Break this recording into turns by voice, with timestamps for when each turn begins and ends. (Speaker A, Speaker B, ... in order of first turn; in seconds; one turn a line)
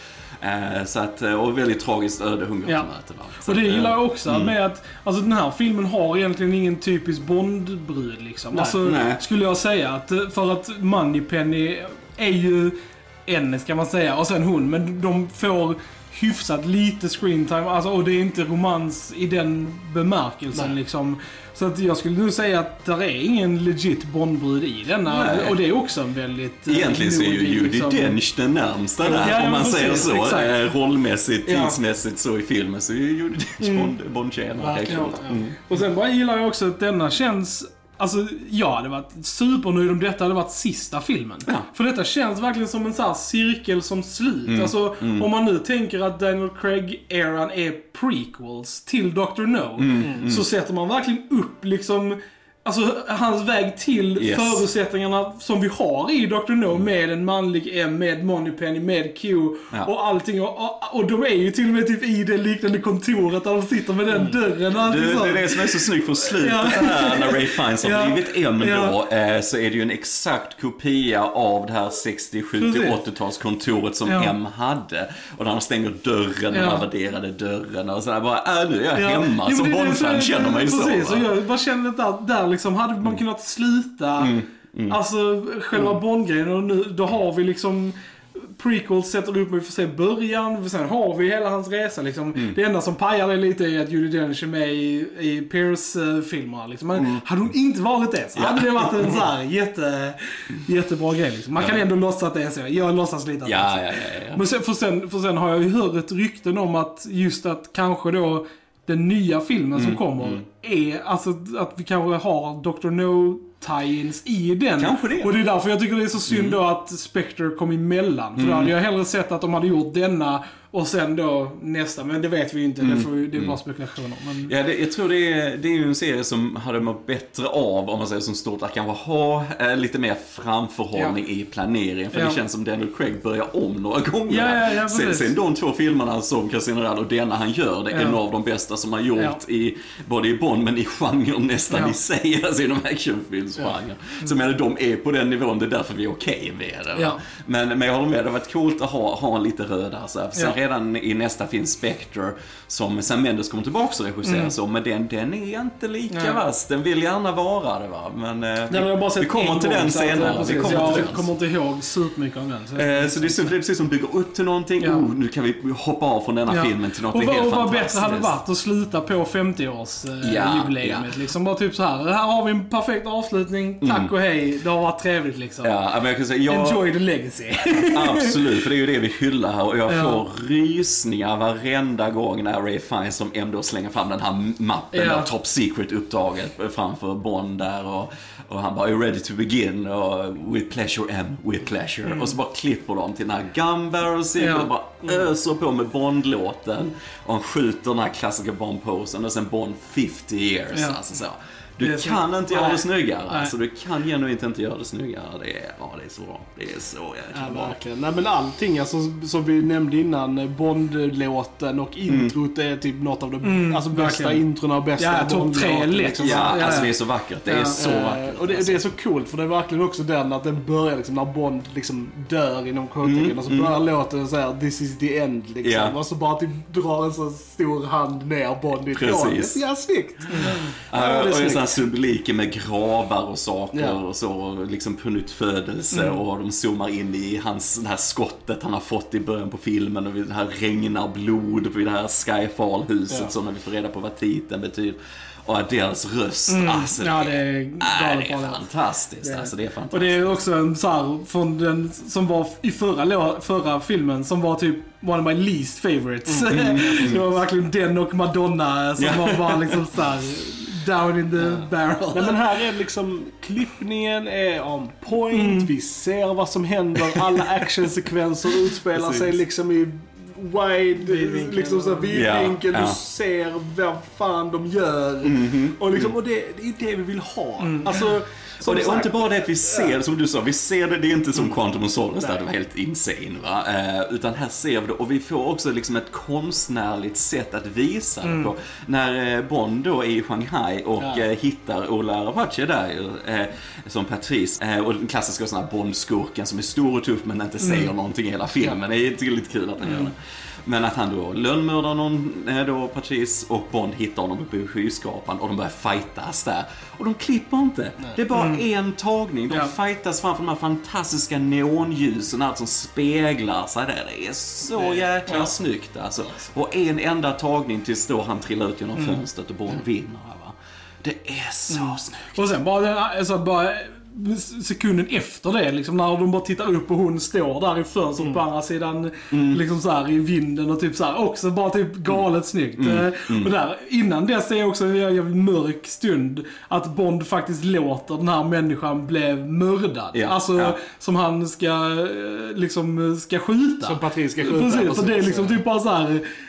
Speaker A: 0.4-4.5
Speaker B: 3.4-28.2
Speaker C: 8.5-8.8
Speaker A: 8.8-9.2
Speaker A: 25.1-25.6
Speaker A: 26.7-35.6
Speaker B: 29.0-30.6
Speaker B: 31.5-31.8
Speaker B: 33.6-33.9
Speaker C: 34.6-35.5
Speaker B: 34.8-69.0
Speaker A: 44.5-45.3
Speaker A: 49.8-50.5
Speaker C: 50.0-50.3
Speaker A: 54.2-54.6
Speaker A: 64.3-81.3
Speaker B: 72.6-73.0
Speaker B: 74.0-74.3
Speaker B: 76.5-76.8
Speaker B: 78.9-84.3
Speaker A: 84.2-85.0
Speaker B: 84.9-124.5
Speaker A: 96.9-97.2
Speaker A: 98.3-99.2
Speaker A: 101.5-101.8
Speaker A: 103.4-104.4
Speaker A: 109.7-110.4
Speaker A: 114.8-115.3
Speaker A: 116.3-116.6
Speaker A: 118.4-118.7
Speaker A: 122.8-123.6
Speaker A: 124.5-161.3
Speaker B: 132.1-132.4
Speaker B: 134.3-135.3
Speaker B: 137.9-138.2
Speaker B: 154.2-154.5
Speaker B: 156.1-156.4
Speaker B: 158.7-163.5
Speaker C: 160.2-161.1
Speaker A: 162.7-168.3
Speaker B: 164.8-165.1
Speaker B: 166.5-175.8
Speaker A: 170.2-171.1
Speaker A: 173.8-174.1
Speaker A: 175.6-176.8
Speaker B: 176.5-178.4
Speaker A: 177.9-207.8
Speaker B: 179.9-180.2
Speaker B: 184.9-185.3
Speaker B: 192.1-192.3
Speaker B: 194.4-194.7
Speaker B: 200.7-201.0
Speaker B: 201.8-203.5
Speaker C: 207.3-216.9
Speaker A: 212.1-212.3
Speaker B: 213.4-214.4
Speaker B: 215.0-216.9
Speaker A: 216.2-218.8
Speaker B: 217.4-217.8
Speaker C: 217.7-231.8
Speaker A: 223.0-223.8
Speaker A: 225.6-226.0
Speaker A: 228.9-229.6
Speaker A: 230.5-250.4
Speaker C: 233.7-234.0
Speaker B: 246.5-248.7
Speaker B: 249.2-262.5
Speaker C: 256.3-257.3
Speaker A: 256.5-257.3
Speaker A: 259.0-259.9
Speaker C: 261.4-279.9
Speaker B: 265.3-265.7
Speaker A: 268.6-269.4
Speaker B: 271.0-272.2
Speaker A: 272.1-273.0
Speaker A: 275.2-276.1
Speaker B: 277.6-278.0
Speaker A: 278.6-322.6
Speaker B: 288.2-288.5
Speaker B: 297.6-297.9
Speaker B: 299.8-300.1
Speaker B: 308.3-308.6
Speaker C: 314.8-315.0
Speaker B: 321.7-346.2
Speaker A: 329.3-329.6
Speaker A: 332.8-333.5
Speaker A: 340.1-340.8
Speaker C: 343.8-345.6